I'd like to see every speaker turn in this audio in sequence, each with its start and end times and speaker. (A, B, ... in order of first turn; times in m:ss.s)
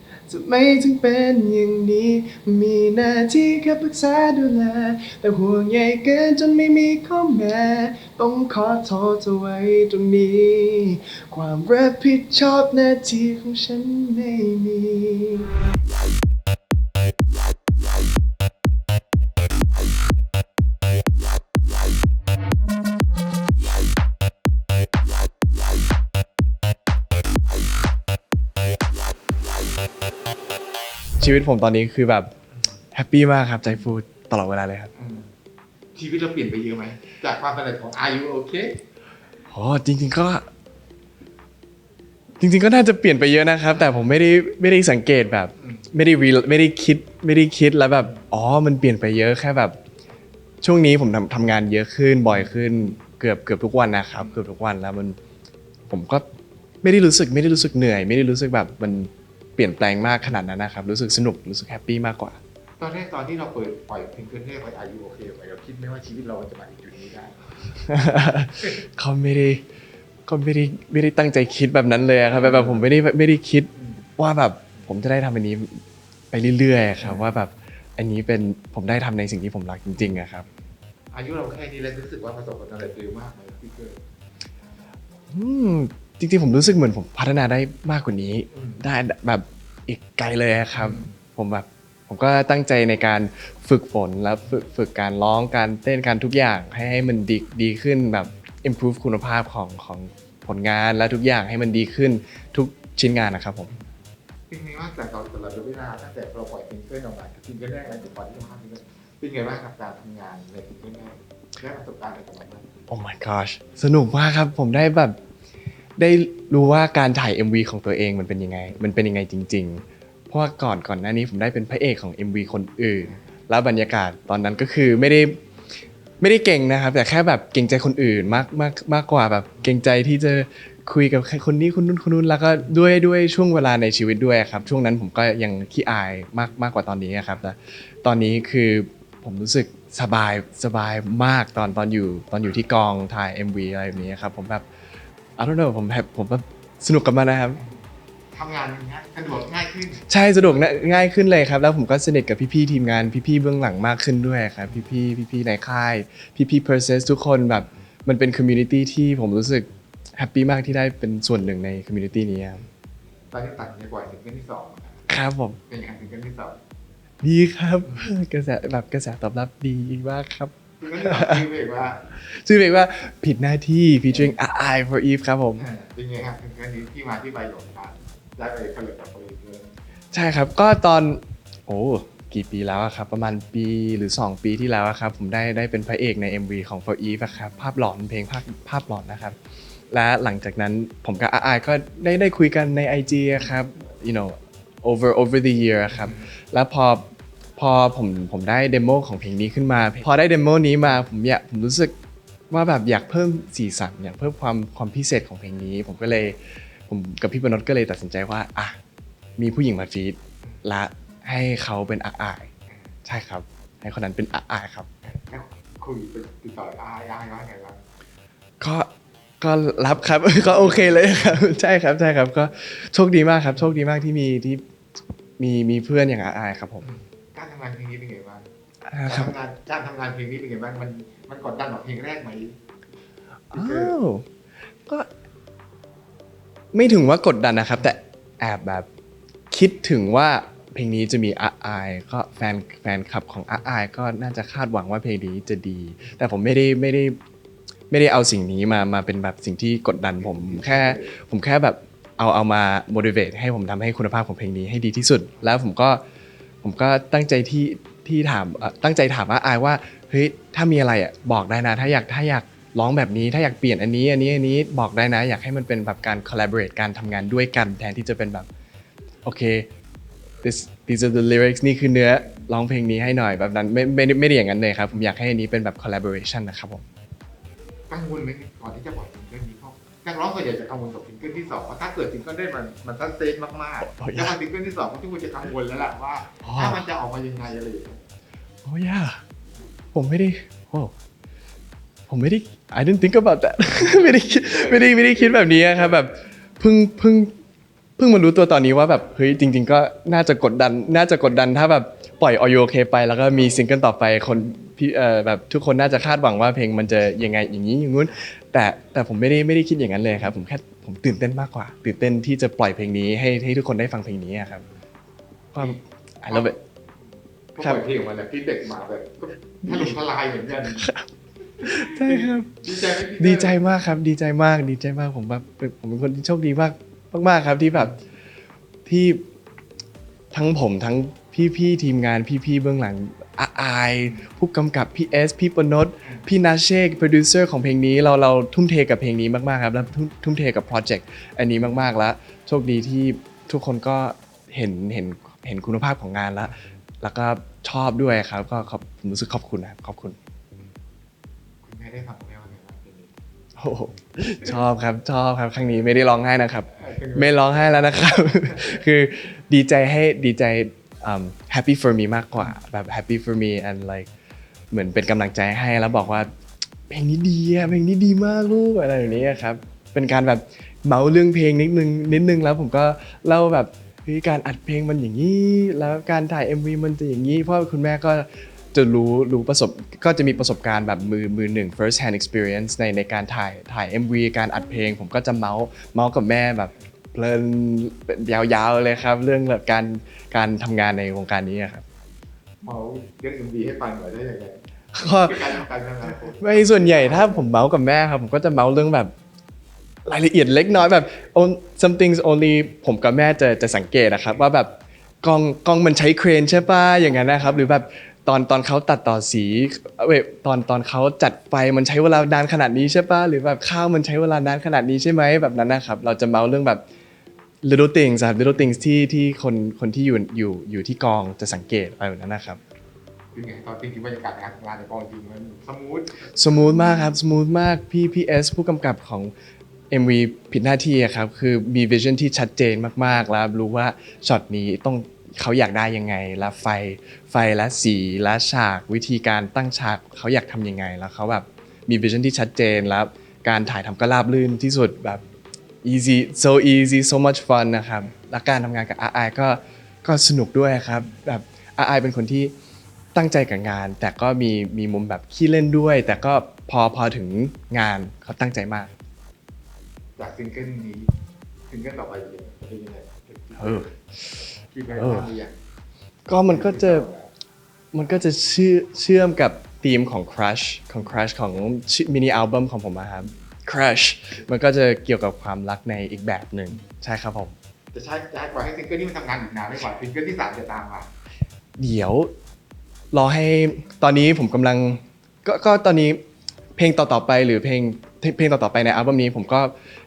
0:00.3-0:15.5 A
0:31.2-0:32.3 A
0:32.9-0:34.9 A
0:35.0-0:35.3 B
0:36.0-0:38.8 B
0:39.5-0:40.5 A
0:42.4-0:49.8 A
0:45.6-0:45.8 B
0:50.6-0:55.2 A
0:55.9-0:56.3 A
0:56.8-1:02.4 A
1:02.8-1:07.8 B
1:07.9-1:09.6 A
1:10.3-1:15.8 A
1:12.3-1:12.8 B
1:13.8-1:14.0 B
1:16.3-1:20.5 A
1:17.0-1:17.3 B
1:20.0-1:20.2 B
1:21.1-1:24.0 B
1:25.3-1:43.7 A
1:28.5-1:28.8 B
1:30.8-1:31.2 B
1:44.5-1:52.7 B
1:52.9-1:55.2 A
1:56.0-2:05.4 A
2:06.2-2:24.7 A
2:25.4-2:27.6 A
2:28.3-2:30.0 B
2:30.1-2:42.6 A
2:43.3-2:45.0 B
2:45.1-2:45.6 A
2:45.7-2:46.6 B
2:47.2-2:51.5 A
2:47.8-2:48.1 B
2:50.8-2:52.1 B
2:52.1-2:55.7 A
2:55.6-2:59.8 B
3:00.1-3:09.4 A
3:09.9-3:17.0 A
3:17.6-3:21.9 A
3:22.5-3:28.8 A
3:29.4-3:32.5 A
3:33.0-3:34.9 A
3:35.0-3:37.8 B
3:38.6-3:38.9 A
3:39.4-3:44.6 A
3:40.4-3:41.1 B
3:45.4-3:46.9 A
3:46.8-3:48.5 B
3:48.9-3:49.3 A
3:49.1-3:52.5 B
3:53.5-3:54.3 A
3:53.5-3:54.0 B
3:56.7-3:58.9 A
3:59.5-4:07.2 A
4:07.9-4:16.0 A
4:10.2-4:11.2 B
4:16.6-4:28.5 A
4:29.2-4:29.7 A
4:30.4-4:36.8 A
4:37.9-4:48.0 B
4:43.9-4:44.4 A
4:46.4-4:46.8 A
4:48.6-4:49.2 A
4:50.0-4:50.9 A
4:52.1-4:57.3 A
4:53.7-4:55.9 B
4:58.0-5:14.6 A
5:15.5-5:16.6 A
5:15.6-5:16.6 B
5:17.6-5:20.8 B
5:19.6-5:19.9 A
5:20.7-5:21.1 A
5:21.6-5:23.6 B
5:21.6-5:27.9 A
5:28.9-5:29.2 A
5:30.3-5:50.2 A
5:51.6-5:53.1 B
5:53.6-6:04.1 A
5:56.7-5:57.4 B
6:04.7-6:06.3 A
6:06.9-6:31.8 A
6:32.6-6:34.6 B
6:34.9-6:35.5 A
6:35.2-6:37.5 B
6:36.4-6:39.1 A
6:40.1-6:56.8 A
6:57.6-7:02.6 A
7:03.4-7:07.0 B
7:06.4-7:09.3 A
7:09.9-7:25.2 A
7:25.8-7:32.5 A
7:33.2-7:38.9 A
7:40.2-7:41.1 B
7:41.7-7:43.9 B
7:43.6-7:44.4 A
7:44.7-7:45.6 B
7:45.0-7:45.3 A
7:46.3-7:47.1 A
7:46.5-7:47.3 B
7:47.9-7:57.6 A
7:57.9-8:01.1 B
8:01.8-8:02.3 A
8:03.1-8:06.2 A
8:06.8-8:09.7 A